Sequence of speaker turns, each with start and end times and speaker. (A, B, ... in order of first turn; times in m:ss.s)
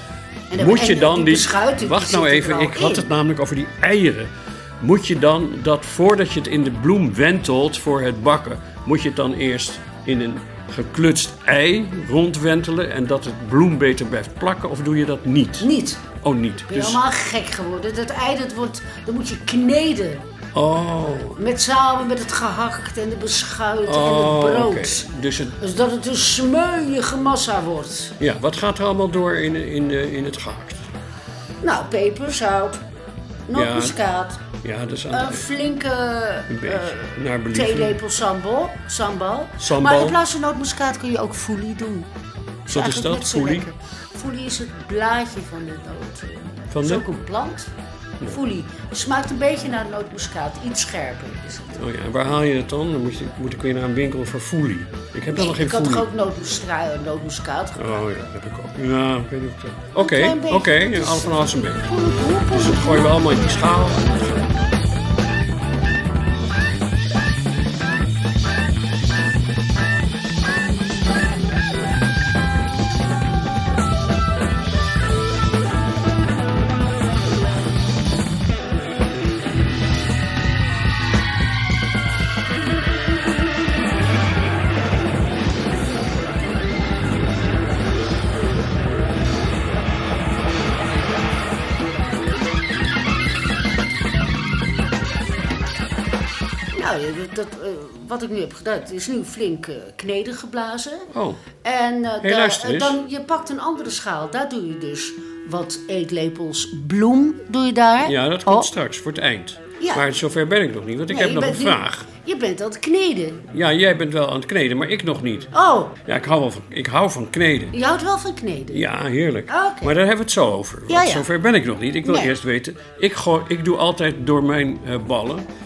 0:00.5-0:03.1 A
0:00.6-0:15.7 B
0:15.6-0:16.1 A
0:16.2-0:17.0 B
0:16.6-0:20.2 A
0:20.5-0:21.4 B
0:21.4-0:28.2 A
0:23.8-0:25.5 B
0:28.2-0:30.9 B
0:31.6-0:32.8 A
0:33.5-0:34.4 A
0:33.5-0:34.0 B
0:34.6-0:35.5 B
0:35.1-0:42.1 A
0:36.5-0:38.0 B
0:39.6-0:40.2 B
0:42.6-0:47.7 A
0:42.7-0:43.7 B
0:46.7-0:47.1 B
0:48.3-0:51.8 A
0:51.8-0:56.1 B
0:55.3-0:58.1 A
0:57.8-1:01.8 B
1:00.0-1:03.6 A
1:02.5-1:04.5 B
1:36.7-1:41.1 A
1:41.1-1:41.4 B
1:41.6-1:48.7 A
1:42.2-1:43.0 B
1:48.0-1:52.1 B
1:49.8-1:50.0 A
1:51.1-1:53.5 A
1:53.5-1:55.5 B
1:55.5-1:56.0 A
1:56.0-1:57.7 B
1:57.7-1:58.8 A
1:58.7-2:05.5 B
1:59.5-1:59.9 A
2:00.9-2:01.3 A
2:02.0-2:02.3 A